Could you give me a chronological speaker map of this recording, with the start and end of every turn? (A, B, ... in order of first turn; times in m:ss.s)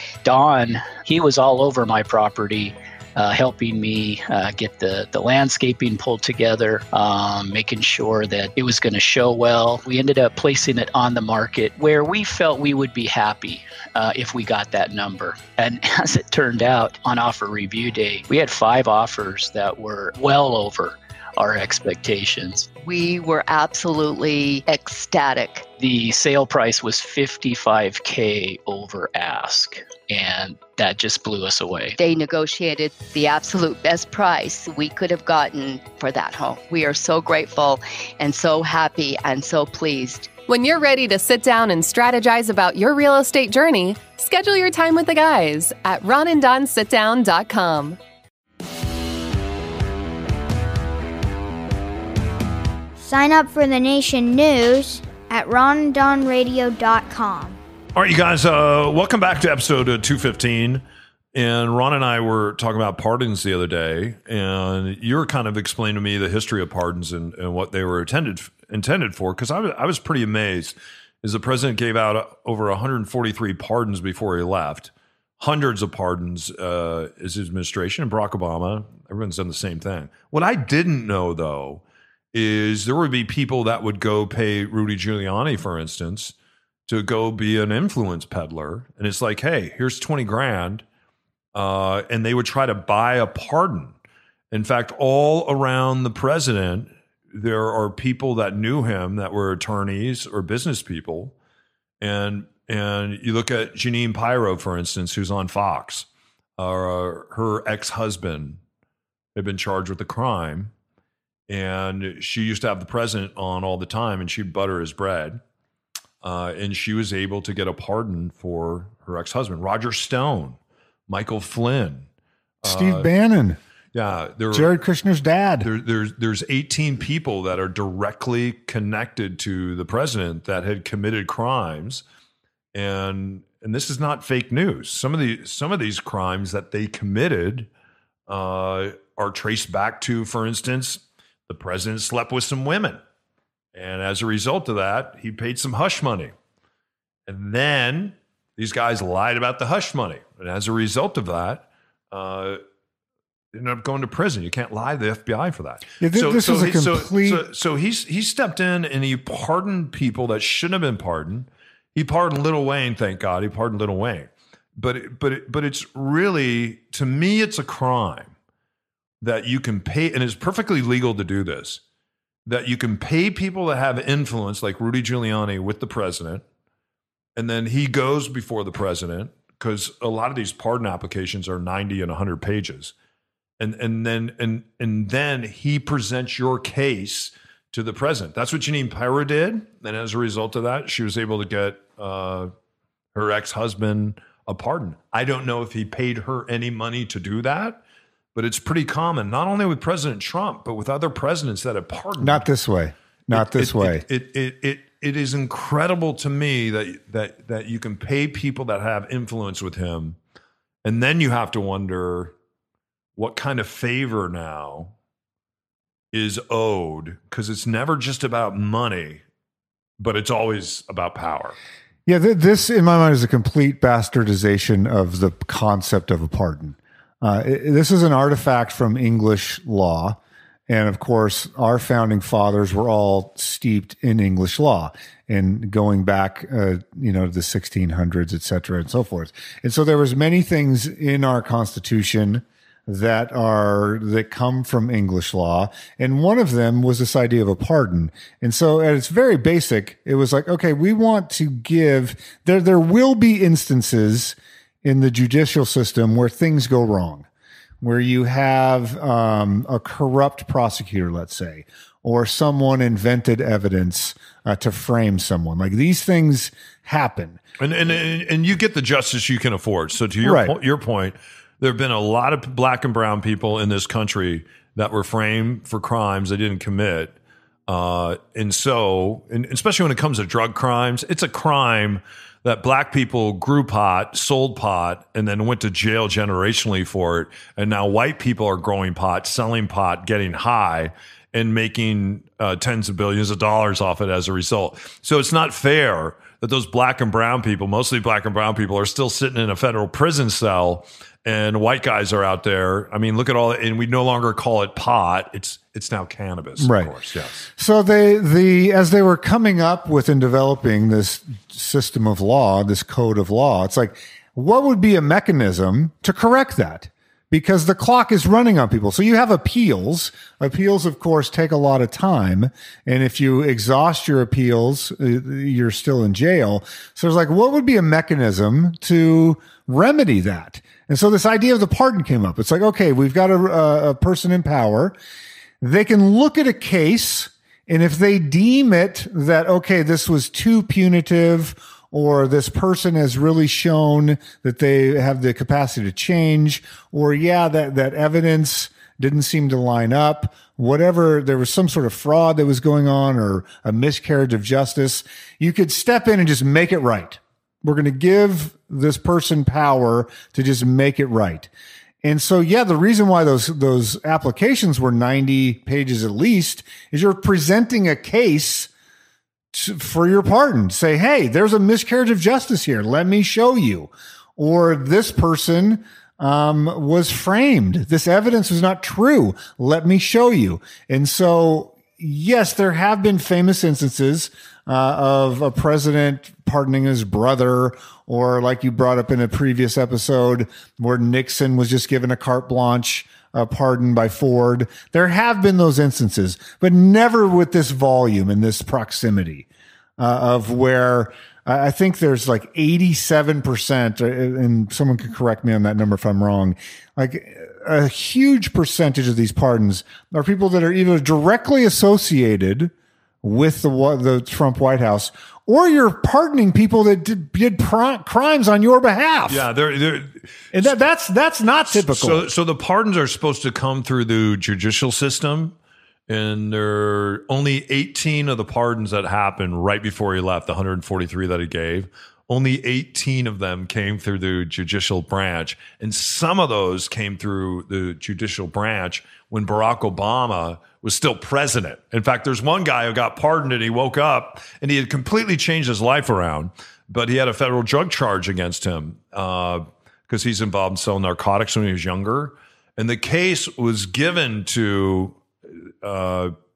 0:00.2-0:22.7 A
0:22.8-0:25.7 B
0:25.8-0:32.0 A
0:32.0-0:40.3 B
0:40.5-0:48.0 C
0:53.0-0:57.6 D
0:57.9-1:26.3 E
1:26.9-1:30.8 E
1:31.5-1:33.9 E
1:34.5-1:41.3 E
1:42.0-1:48.6 E
1:49.3-1:50.7 E
1:51.5-1:55.4 E
1:56.2-2:02.1 E
2:02.6-2:03.1 E
2:02.6-2:03.6 F
2:03.9-2:04.7 E
2:04.5-2:05.7 F
2:05.6-2:12.0 E
2:12.7-2:17.7 E
2:18.3-2:23.0 E
2:23.7-2:26.3 E
2:27.3-2:32.6 E
2:33.5-2:48.3 E
2:36.0-2:37.4 F
2:49.2-2:51.8 E
2:52.4-2:56.4 E
2:57.3-3:02.9 E
3:03.6-3:12.5 E
3:13.1-3:17.8 E
3:18.3-3:22.5 E
3:22.2-3:24.0 F
3:23.3-3:30.2 E
3:30.8-3:32.3 E
3:33.2-3:34.9 E
3:36.1-3:39.2 E
3:40.0-3:41.6 E
3:42.0-4:17.3 F
4:17.8-4:27.4 F
4:27.6-4:37.2 E
4:30.2-4:30.6 F
4:37.7-5:07.5 E
5:06.6-5:06.9 F
5:07.5-5:35.0 F
5:35.6-6:01.5 F
6:02.0-6:08.7 F
6:09.5-6:39.4 F
6:40.0-6:52.7 F
6:53.2-6:59.4 F
6:59.3-7:00.7 E
7:00.5-7:02.3 F
7:01.7-7:05.6 E
7:06.1-7:36.3 E